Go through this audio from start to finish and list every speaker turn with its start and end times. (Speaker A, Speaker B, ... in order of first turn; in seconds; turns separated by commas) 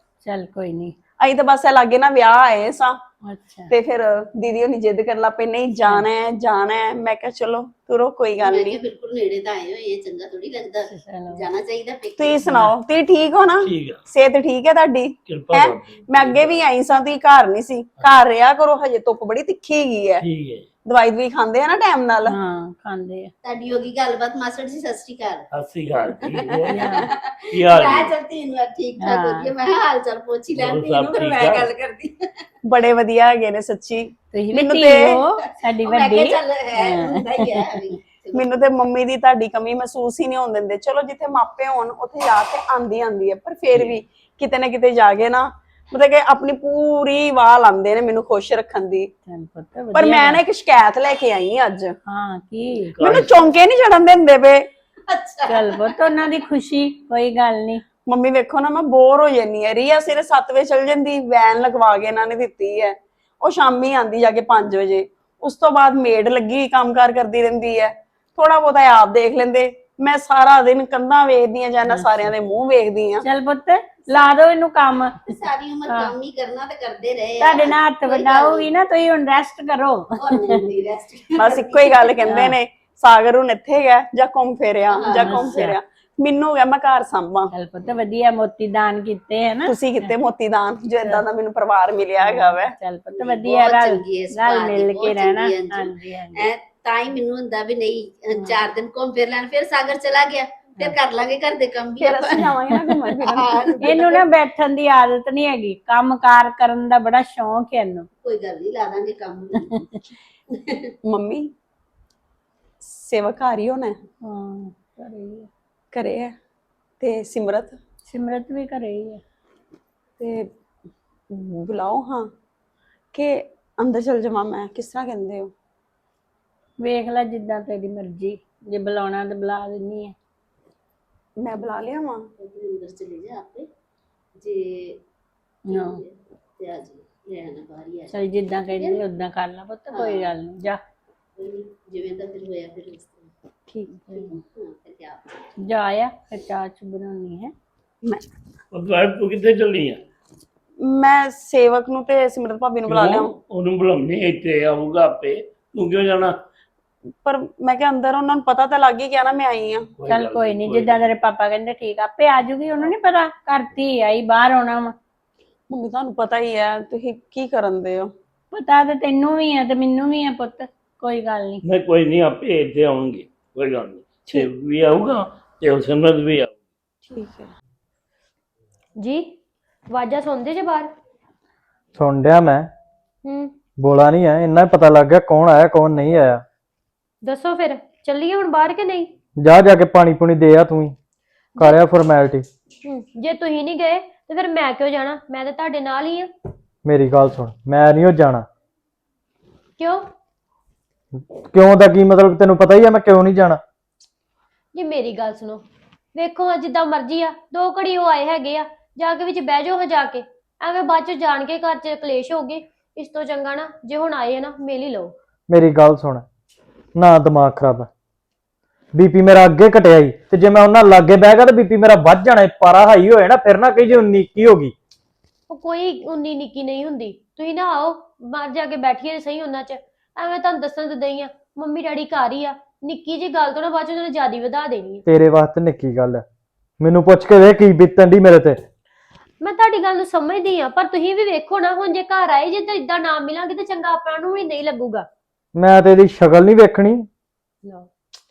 Speaker A: 0.2-0.9, Speaker B: 1.2-3.0, Speaker A: 3.2-3.7, Speaker B: 3.7-8.8, Speaker C: 8.4-12.4, Speaker A: 10.9-11.5, Speaker B: 12.2-20.2, Speaker A: 12.4-12.7, Speaker D: 13.6-14.0, Speaker D: 15.2-16.5, Speaker D: 20.2-20.6, Speaker B: 20.9-22.3, Speaker A: 22.2-23.3, Speaker C: 23.4-25.4, Speaker D: 25.5-26.9, Speaker C: 26.1-32.4, Speaker A: 26.7-27.1, Speaker D: 27.5-28.1, Speaker A: 29.0-29.5, Speaker D: 30.6-31.7, Speaker B: 32.6-35.1, Speaker A: 34.3-37.7, Speaker C: 35.8-38.5, Speaker B: 38.3-49.1, Speaker A: 49.2-50.4, Speaker B: 49.9-51.9, Speaker A: 52.1-53.0, Speaker D: 53.0-53.3, Speaker B: 53.0-54.6, Speaker C: 55.1-55.8, Speaker A: 55.5-57.8, Speaker B: 58.0-73.2, Speaker A: 71.9-72.2, Speaker A: 73.2-75.3, Speaker C: 75.2-78.7, Speaker A: 75.9-76.1, Speaker A: 77.4-80.5, Speaker C: 80.2-82.2, Speaker B: 81.4-87.5, Speaker A: 82.3-82.6, Speaker C: 84.9-85.6, Speaker A: 85.1-85.8, Speaker A: 87.5-90.1, Speaker B: 89.7-92.7, Speaker A: 92.2-96.5, Speaker C: 93.2-102.5, Speaker B: 102.0-104.2, Speaker C: 103.3-103.7, Speaker A: 103.8-108.1, Speaker C: 108.2-109.7, Speaker A: 109.6-110.0, Speaker C: 110.5-110.9, Speaker B: 111.0-111.5, Speaker B: 112.8-113.9, Speaker A: 114.2-115.5, Speaker B: 115.9-116.3, Speaker B: 117.0-117.8, Speaker A: 118.1-119.2, Speaker B: 120.2-120.5, Speaker B: 121.3-122.3, Speaker B: 123.1-125.5, Speaker A: 126.8-130.2, Speaker B: 131.4-132.2, Speaker C: 132.4-133.7, Speaker C: 134.4-135.0, Speaker A: 135.7-136.0, Speaker C: 135.7-138.1, Speaker A: 138.1-140.8, Speaker C: 138.7-139.0, Speaker C: 139.9-140.3, Speaker C: 141.4-143.3, Speaker B: 143.7-144.1, Speaker A: 143.9-144.3, Speaker C: 144.1-145.3, Speaker A: 145.6-147.5, Speaker D: 148.7-150.0, Speaker B: 150.8-153.3, Speaker D: 152.9-156.3, Speaker B: 157.2-159.9, Speaker D: 160.0-161.1, Speaker A: 160.1-164.9, Speaker B: 165.7-168.1, Speaker A: 168.5-171.6, Speaker D: 171.6-176.5, Speaker B: 177.0-177.5, Speaker E: 179.0-179.3, Speaker E: 179.9-180.9, Speaker F: 181.9-182.7, Speaker E: 183.2-183.5, Speaker F: 183.8-186.4, Speaker E: 187.2-189.1, Speaker F: 189.4-190.9, Speaker F: 191.6-192.5, Speaker E: 192.8-196.3, Speaker F: 196.8-198.4, Speaker E: 199.8-200.0, Speaker F: 201.2-203.6, Speaker E: 204.7-205.6, Speaker E: 206.1-215.1, Speaker F: 215.5-216.2, Speaker F: 216.9-217.9, Speaker F: 218.9-224.7, Speaker E: 225.5-235.0, Speaker F: 235.1-236.2, Speaker F: 236.8-238.6, Speaker E: 239.4-245.1, Speaker F: 245.6-247.1, Speaker E: 247.6-247.9